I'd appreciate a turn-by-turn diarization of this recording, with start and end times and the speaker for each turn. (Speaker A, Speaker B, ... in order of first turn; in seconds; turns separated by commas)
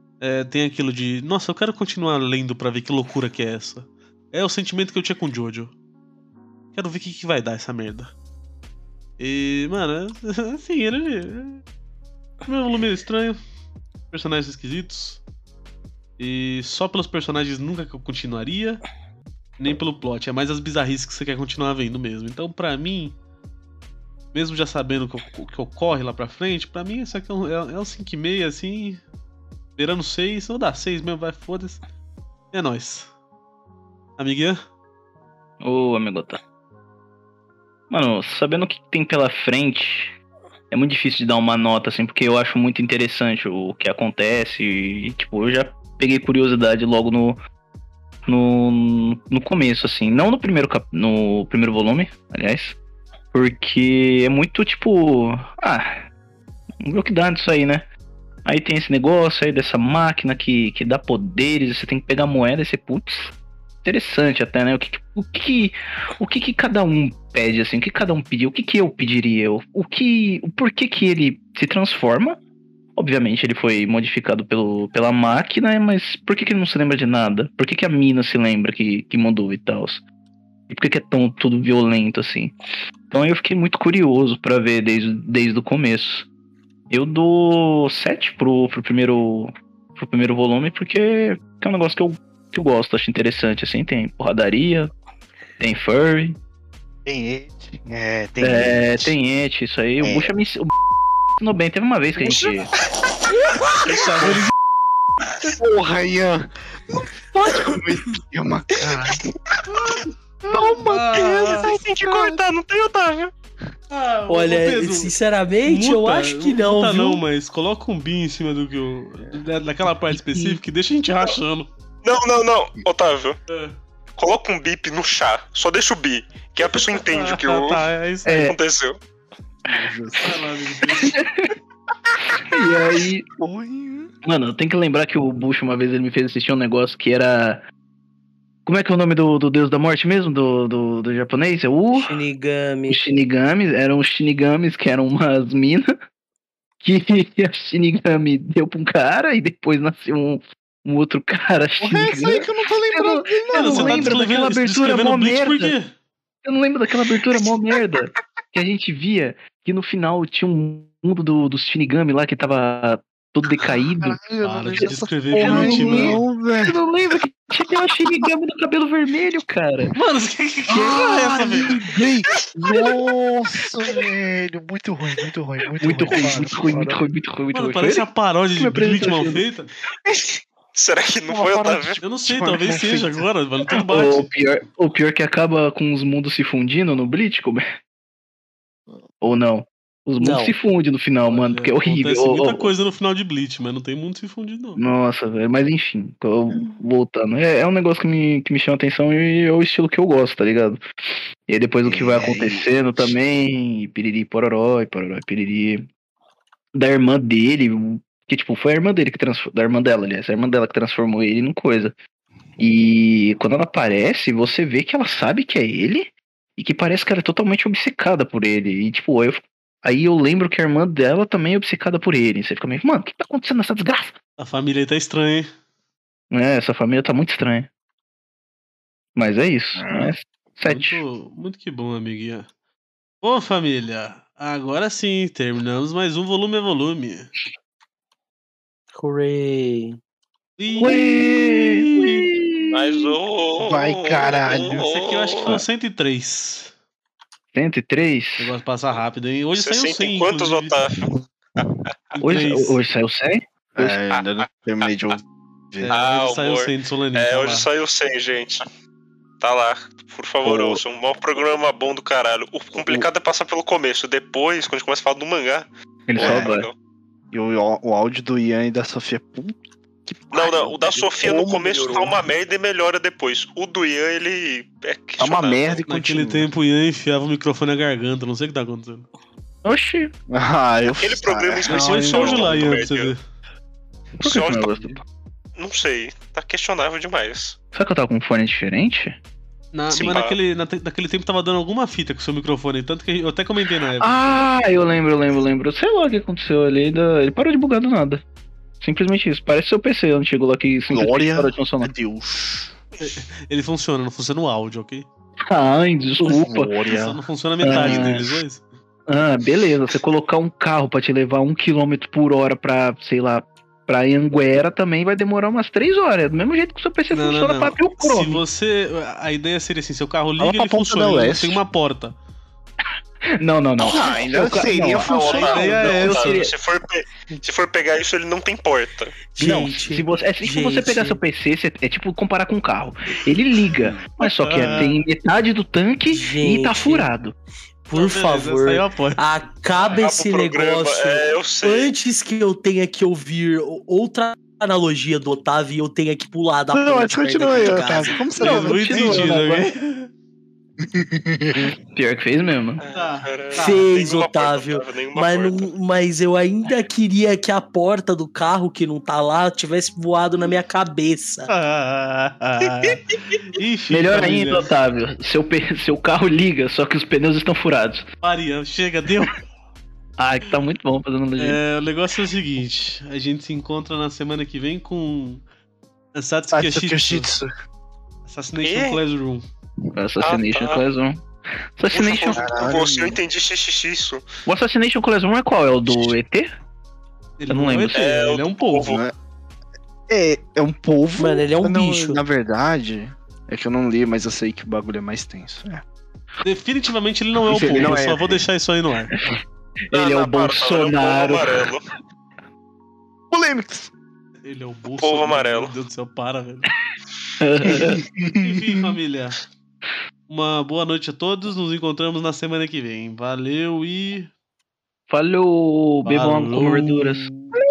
Speaker A: 0.2-5.7, Speaker A: 6.7-8.1, Speaker A: 9.2-11.6, Speaker A: 12.4-13.4, Speaker A: 14.1-15.2, Speaker A: 16.2-18.8, Speaker A: 19.6-23.1, Speaker A: 24.3-29.0, Speaker A: 29.8-31.8, Speaker A: 32.5-33.1, Speaker A: 34.2-34.6, Speaker B: 35.6-36.4, Speaker B: 37.9-40.1, Speaker B: 40.7-47.4, Speaker B: 48.2-52.8, Speaker B: 53.3-56.0, Speaker B: 56.8-57.9, Speaker B: 58.4-72.4, Speaker B: 73.0-80.0, Speaker B: 80.7-82.5, Speaker B: 83.1-86.3, Speaker B: 86.9-94.9, Speaker B: 95.6-96.4, Speaker C: 97.0-99.1, Speaker B: 98.4-100.7, Speaker C: 100.0-100.3, Speaker B: 101.4-102.7, Speaker C: 102.2-102.5, Speaker C: 103.3-104.4, Speaker A: 103.9-104.5, Speaker C: 105.4-106.5, Speaker C: 107.4-112.4, Speaker A: 109.7-111.7, Speaker D: 111.1-113.3, Speaker A: 113.9-115.1, Speaker E: 114.3-117.2, Speaker A: 115.6-121.7, Speaker B: 120.1-120.6, Speaker D: 122.0-123.4, Speaker A: 123.5-123.8, Speaker D: 124.2-129.0, Speaker A: 126.6-128.5, Speaker B: 128.3-128.6, Speaker C: 129.7-130.5, Speaker A: 130.2-131.2, Speaker B: 131.0-131.5, Speaker B: 132.3-133.2, Speaker C: 133.4-134.1, Speaker B: 134.2-137.6, Speaker B: 138.6-142.2, Speaker E: 141.9-143.0, Speaker B: 142.9-145.9, Speaker B: 146.8-155.8, Speaker C: 151.8-154.2, Speaker A: 153.5-155.9, Speaker B: 156.4-164.2, Speaker C: 163.6-166.8, Speaker A: 164.4-166.2, Speaker B: 164.7-169.9, Speaker A: 169.9-171.8, Speaker C: 170.7-177.0, Speaker B: 175.8-179.4, Speaker A: 177.5-179.7, Speaker D: 180.7-182.0, Speaker C: 181.3-183.2, Speaker A: 182.0-184.3, Speaker B: 183.9-187.6, Speaker B: 189.2-192.7, Speaker E: 190.2-190.6, Speaker A: 191.3-194.8, Speaker B: 194.8-205.9, Speaker C: 201.8-203.1, Speaker B: 206.7-211.9, Speaker B: 212.6-224.2, Speaker A: 224.4-225.5, Speaker B: 226.3-227.7, Speaker B: 229.1-231.0, Speaker C: 229.8-230.1, Speaker A: 230.6-232.5, Speaker A: 233.2-237.3, Speaker E: 238.9-240.0, Speaker A: 240.6-242.3, Speaker B: 240.8-243.1, Speaker D: 242.7-245.6, Speaker C: 243.6-244.9, Speaker A: 244.5-246.7, Speaker B: 247.5-248.5, Speaker A: 248.4-250.8, Speaker D: 249.5-251.7, Speaker A: 252.2-252.8, Speaker B: 252.2-254.0, Speaker C: 253.8-255.9, Speaker A: 255.8-257.7, Speaker D: 255.9-258.6, Speaker D: 259.4-266.7, Speaker C: 260.4-260.8, Speaker C: 262.8-263.1, Speaker C: 266.1-266.5, Speaker B: 266.1-266.7, Speaker C: 267.3-269.5, Speaker C: 270.1-272.2, Speaker D: 270.3-275.8, Speaker C: 275.2-276.5, Speaker A: 275.9-279.1, Speaker B: 279.6-280.1, Speaker C: 280.3-282.7, Speaker D: 281.0-283.1, Speaker A: 281.7-283.2, Speaker D: 284.2-284.9, Speaker B: 284.2-285.0, Speaker D: 285.6-287.6, Speaker B: 287.7-289.2, Speaker A: 289.7-294.5, Speaker D: 289.9-290.4, Speaker B: 294.0-298.2, Speaker B: 298.8-301.9, Speaker C: 300.9-302.7, Speaker A: 303.0-305.1, Speaker B: 305.5-306.7, Speaker C: 306.2-308.4, Speaker A: 306.9-308.6, Speaker B: 307.6-308.3, Speaker B: 309.1-318.4, Speaker A: 317.1-322.1, Speaker C: 320.4-321.6, Speaker B: 323.4-326.5, Speaker C: 323.8-326.1, Speaker D: 325.0-329.2, Speaker A: 325.2-326.4, Speaker E: 329.3-331.2, Speaker B: 329.4-337.3, Speaker A: 334.2-334.9, Speaker E: 336.1-337.1, Speaker E: 337.9-348.3, Speaker A: 337.9-339.3, Speaker D: 339.9-341.9, Speaker C: 346.7-349.2, Speaker A: 348.4-350.1, Speaker B: 348.4-349.7, Speaker C: 350.9-351.7, Speaker B: 351.9-352.8, Speaker A: 352.9-353.9, Speaker D: 352.9-355.7, Speaker E: 353.6-361.5, Speaker A: 361.5-364.7, Speaker B: 363.9-368.1, Speaker A: 368.2-369.4, Speaker B: 370.2-371.6, Speaker A: 371.4-375.4, Speaker A: 376.1-377.3, Speaker C: 376.5-377.5, Speaker A: 378.2-379.4, Speaker D: 378.6-379.0, Speaker B: 379.9-381.2, Speaker D: 380.2-380.8, Speaker B: 381.8-382.4, Speaker D: 381.9-384.2, Speaker C: 382.3-383.2, Speaker B: 384.4-386.5, Speaker A: 387.4-389.0, Speaker B: 387.5-388.1, Speaker D: 387.9-389.0, Speaker C: 388.9-389.1, Speaker C: 390.1-395.8, Speaker E: 391.1-392.2, Speaker A: 396.4-399.2, Speaker C: 397.4-398.4, Speaker B: 399.9-401.7, Speaker D: 399.9-401.9, Speaker C: 403.3-403.9, Speaker A: 404.4-406.7, Speaker D: 405.0-405.7, Speaker B: 407.4-408.0, Speaker C: 407.6-409.0, Speaker A: 408.4-409.4, Speaker A: 410.3-414.3, Speaker B: 415.1-417.3, Speaker A: 416.1-417.5